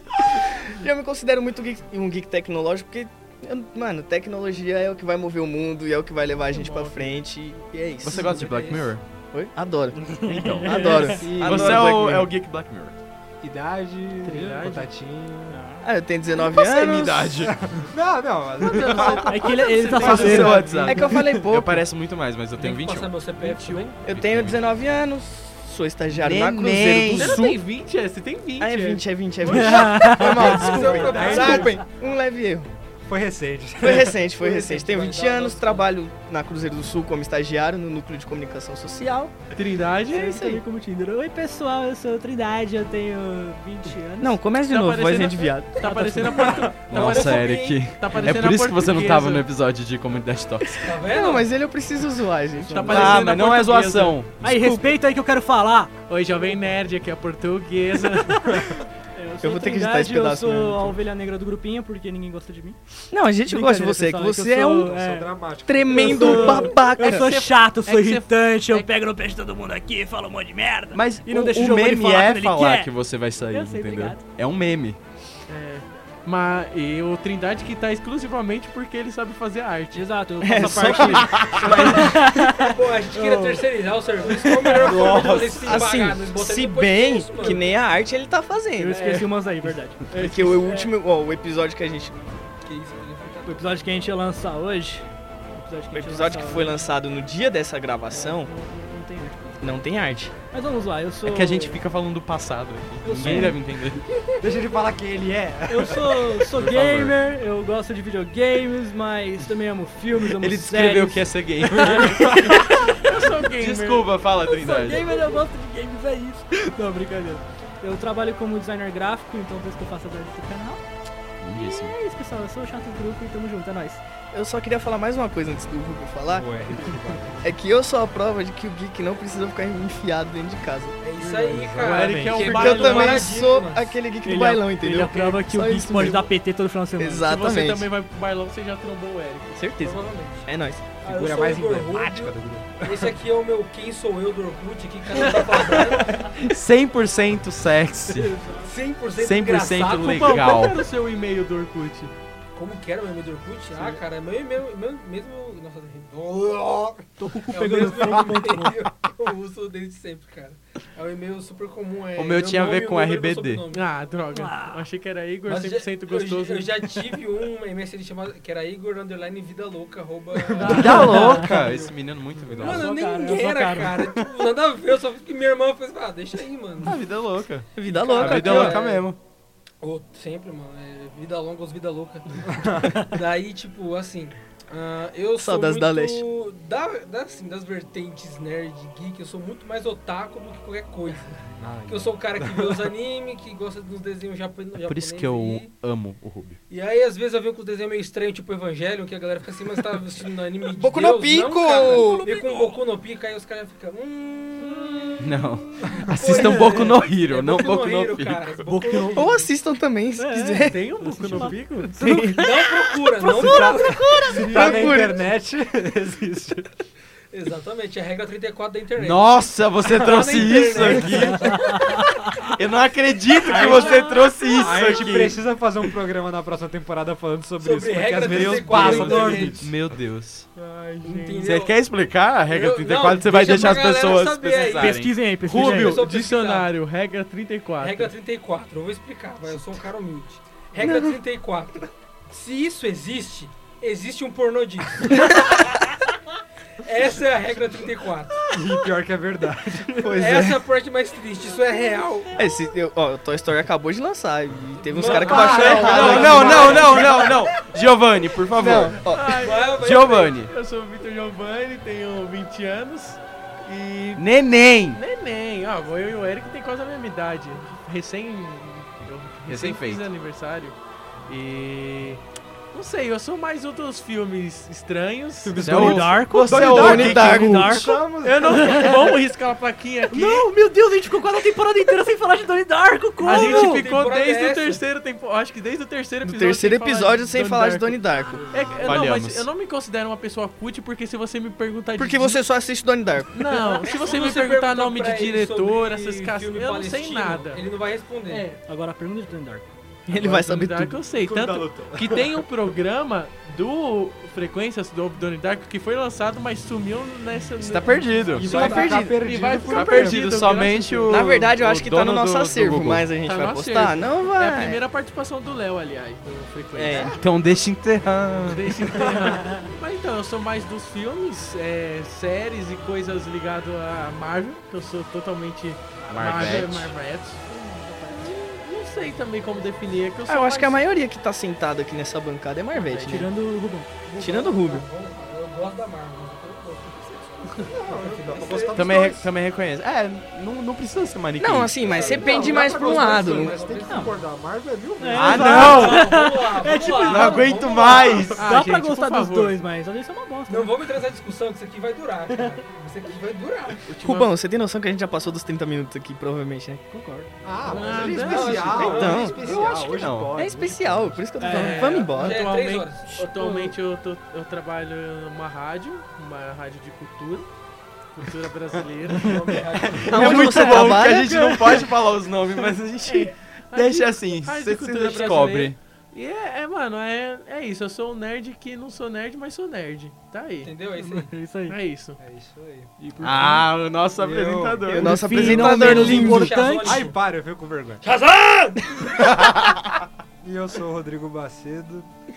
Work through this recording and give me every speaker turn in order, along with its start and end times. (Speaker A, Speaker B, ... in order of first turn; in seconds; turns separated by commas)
Speaker A: 0.3-8.5, Speaker B: 6.5-7.2, Speaker C: 8.0-9.0, Speaker D: 8.2-8.9, Speaker A: 9.3-12.3, Speaker E: 10.2-11.3, Speaker F: 11.2-12.0, Speaker C: 11.3-12.9, Speaker F: 13.4-15.6, Speaker B: 14.2-14.9, Speaker E: 15.5-15.9, Speaker A: 15.8-17.5, Speaker C: 16.5-17.6, Speaker F: 17.4-20.7, Speaker C: 18.6-19.2, Speaker E: 18.8-21.4, Speaker B: 19.5-20.4, Speaker C: 20.0-23.3, Speaker A: 20.0-21.9, Speaker D: 22.6-24.1, Speaker B: 23.4-24.0, Speaker C: 24.1-24.7, Speaker A: 24.1-27.6, Speaker C: 26.1-27.6, Speaker B: 27.1-30.2, Speaker A: 28.6-32.7, Speaker E: 29.4-30.7, Speaker D: 30.1-31.9, Speaker F: 31.0-31.8, Speaker F: 33.0-34.3, Speaker A: 33.8-39.4, Speaker D: 34.3-35.9, Speaker B: 39.5-40.3, Speaker A: 40.1-40.6, Speaker E: 40.1-44.4, Speaker A: 44.2-46.4, Speaker B: 44.7-49.5, Speaker F: 46.4-46.7, Speaker D: 46.4-47.8, Speaker C: 46.8-50.8, Speaker D: 50.8-51.5, Speaker A: 50.8-53.4, Speaker E: 52.5-53.2, Speaker B: 52.7-54.2, Speaker C: 52.9-54.9, Speaker E: 54.4-56.0, Speaker B: 56.1-58.6, Speaker E: 58.2-62.8, Speaker A: 59.4-61.0, Speaker A: 63.1-64.9, Speaker E: 63.4-65.4, Speaker F: 64.8-66.8, Speaker A: 65.7-67.3, Speaker E: 65.9-72.9, Speaker B: 67.0-68.9, Speaker C: 70.9-75.0, Speaker E: 73.4-74.2, Speaker B: 75.5-80.0, Speaker E: 79.9-83.7, Speaker A: 80.4-82.5, Speaker C: 81.1-81.7, Speaker D: 82.6-87.7, Speaker E: 84.4-85.7, Speaker A: 84.8-89.2, Speaker E: 88.8-90.7, Speaker D: 89.0-89.2, Speaker A: 90.1-92.3, Speaker B: 90.1-90.8, Speaker D: 92.6-93.7, Speaker E: 93.4-96.8, Speaker A: 95.9-98.5, Speaker E: 98.1-99.8, Speaker A: 99.6-100.3, Speaker E: 100.5-101.8, Speaker C: 101.2-104.0, Speaker E: 103.0-103.6, Speaker F: 104.4-106.1, Speaker E: 105.7-113.1, Speaker C: 106.5-107.1, Speaker C: 110.2-115.3, Speaker B: 112.9-114.1, Speaker E: 114.5-120.8, Speaker C: 121.4-122.0, Speaker E: 121.5-124.0, Speaker A: 124.3-126.6, Speaker F: 126.3-127.6, Speaker A: 127.4-131.0, Speaker D: 131.0-133.9, Speaker F: 131.3-132.6, Speaker B: 131.8-133.3, Speaker A: 132.3-136.3, Speaker E: 134.2-137.3, Speaker A: 137.0-137.9, Speaker B: 137.2-139.6, Speaker A: 139.5-141.0, Speaker D: 139.8-146.4, Speaker F: 141.0-143.2, Speaker C: 145.7-148.4, Speaker E: 148.1-148.7, Speaker D: 148.6-150.4, Speaker C: 149.2-150.8, Speaker B: 150.0-152.1, Speaker D: 152.6-163.8, Speaker E: 157.2-158.8, Speaker C: 162.2-163.6, Speaker B: 163.7-166.9, Speaker E: 164.3-164.8, Speaker D: 165.5-171.9, Speaker B: 170.6-171.4, Speaker C: 170.6-172.9, Speaker E: 170.9-171.4, Speaker D: 172.5-177.0, Speaker E: 172.6-174.2, Speaker C: 176.8-179.2, Speaker A: 177.7-178.9, Speaker D: 177.8-179.1, Speaker D: 179.8-195.7, Speaker F: 182.4-183.0, Speaker A: 185.4-186.2, Speaker F: 191.6-192.9, Speaker C: 194.8-196.6, Speaker D: 196.7-205.3, Speaker A: 200.8-202.2, Speaker E: 202.0-202.5, Speaker E: 204.6-205.1, Speaker C: 205.2-208.6, Speaker D: 205.8-209.5, Speaker F: 206.1-206.6, Speaker E: 208.7-209.3, Speaker A: 209.2-210.8, Speaker E: 210.2-212.6, Speaker B: 210.6-211.9, Speaker A: 212.0-212.5, Speaker D: 212.3-215.1, Speaker A: 213.3-215.2, Speaker F: 213.3-216.8, Speaker E: 214.3-214.8, Speaker D: 217.3-222.5, Speaker C: 219.0-225.4, Speaker F: 220.8-221.1, Speaker E: 221.5-222.1, Speaker D: 223.4-225.1, Speaker E: 223.4-224.3, Speaker F: 223.5-229.7, Speaker D: 227.6-229.7, Speaker C: 228.2-230.5, Speaker B: 230.6-231.3, Speaker D: 231.0-231.8, Speaker C: 231.4-235.3, Speaker D: 232.4-236.7, Speaker E: 234.7-236.0, Speaker B: 235.4-238.1, Speaker D: 237.8-245.8, Speaker A: 240.8-241.2, Speaker D: 246.8-248.5, Speaker F: 248.5-250.6, Speaker D: 250.1-252.4, Speaker A: 252.3-257.3, Speaker D: 254.8-257.7, Speaker F: 255.1-257.3, Speaker C: 255.8-259.0, Speaker F: 258.6-259.0, Speaker A: 258.6-259.5, Speaker B: 259.0-264.2, Speaker D: 259.4-260.4, Speaker C: 259.7-260.5, Speaker C: 264.1-265.0, Speaker B: 264.9-270.8, Speaker C: 269.5-270.1, Speaker B: 271.3-272.2, Speaker B: 272.7-275.8, Speaker F: 275.4-279.1, Speaker C: 275.6-277.8, Speaker E: 275.6-278.0, Speaker A: 276.5-277.8, Speaker B: 278.2-280.5, Speaker E: 278.5-279.0, Speaker E: 280.1-283.8, Speaker D: 283.2-284.8, Speaker B: 283.2-292.4, Speaker A: 286.2-288.4, Speaker C: 288.8-289.5, Speaker A: 292.0-293.6, Speaker B: 293.3-297.6, Speaker D: 293.8-298.5, Speaker B: 298.3-298.6, Speaker E: 298.6-299.6, Speaker A: 300.1-301.0, Speaker B: 300.1-311.3, Speaker F: 301.2-302.4, Speaker C: 307.6-308.7, Speaker F: 308.4-310.6, Speaker A: 308.5-308.8, Speaker D: 308.6-309.0, Speaker C: 309.6-313.1, Speaker A: 311.1-314.8, Speaker B: 313.2-317.2, Speaker A: 316.7-317.2, Speaker C: 317.1-319.1, Speaker B: 318.4-327.4, Speaker E: 319.0-319.6, Speaker C: 326.1-326.9, Speaker E: 327.5-328.4, Speaker B: 328.1-330.8, Speaker A: 330.2-333.3, Speaker E: 332.8-333.9, Speaker D: 334.2-339.1, Speaker A: 334.2-334.9, Speaker F: 337.6-339.3, Speaker C: 338.7-342.4, Speaker A: 341.4-343.5, Speaker F: 341.9-345.8, Speaker D: 342.0-344.1, Speaker E: 343.9-344.1, Speaker E: 345.0-350.7, Speaker C: 345.1-346.2, Speaker D: 345.4-348.4, Speaker C: 346.9-348.4, Speaker B: 348.3-349.6, Speaker D: 350.5-353.9, Speaker E: 352.3-352.6, Speaker B: 353.9-354.3, Speaker A: 354.0-356.8, Speaker E: 356.9-357.3, Speaker F: 357.4-361.2, Speaker B: 357.6-358.8, Speaker D: 357.8-359.8, Speaker A: 358.8-362.4, Speaker C: 359.8-360.4, Speaker E: 361.4-362.1, Speaker B: 361.5-367.5, Speaker D: 362.1-363.1, Speaker E: 363.1-363.7, Speaker B: 368.2-369.4, Speaker D: 369.1-370.3, Speaker C: 369.2-375.8, Speaker A: 370.0-371.8, Speaker E: 370.2-371.2, Speaker B: 370.2-370.9, Speaker B: 373.1-380.7, Speaker D: 380.6-381.3, Speaker E: 381.0-381.8, Speaker B: 381.7-382.2, Speaker F: 382.2-382.9, Speaker E: 383.0-383.7, Speaker C: 383.2-386.2, Speaker F: 384.1-388.0, Speaker A: 384.9-386.6, Speaker E: 385.1-387.0, Speaker D: 386.0-387.1, Speaker D: 388.0-389.3, Speaker C: 389.1-390.0, Speaker F: 390.4-392.1